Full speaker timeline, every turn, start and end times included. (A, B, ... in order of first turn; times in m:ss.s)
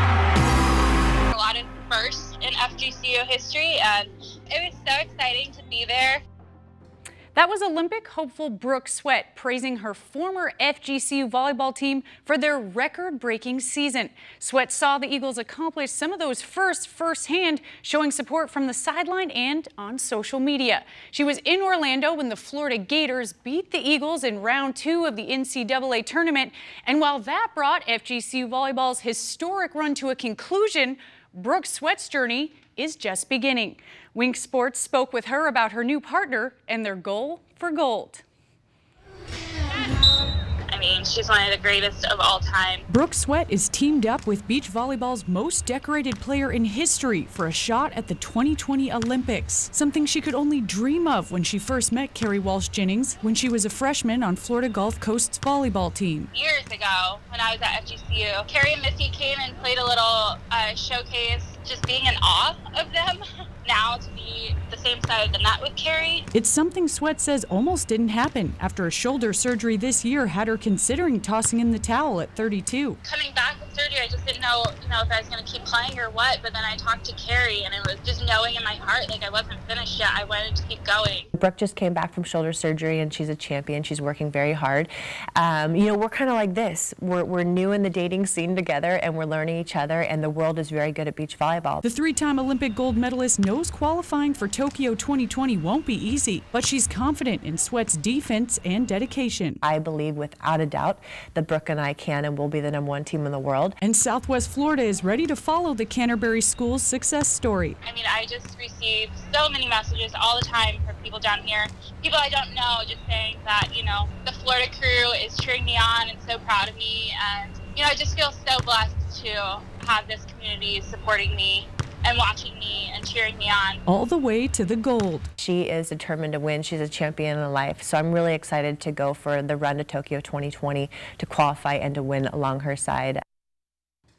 0:01.3-0:06.2 A
0:07.4-0:38.2 B
0:40.7-0:42.9 A
0:42.9-0:56.3 B
0:56.3-1:06.3 A
1:06.3-1:13.0 B
1:13.0-1:21.3 A
1:21.4-1:31.8 C
1:31.8-1:39.6 B
1:39.6-1:43.8 C
1:43.8-1:47.8 B
1:47.8-2:03.8 A
2:03.9-2:05.3 B
2:05.4-2:13.2 C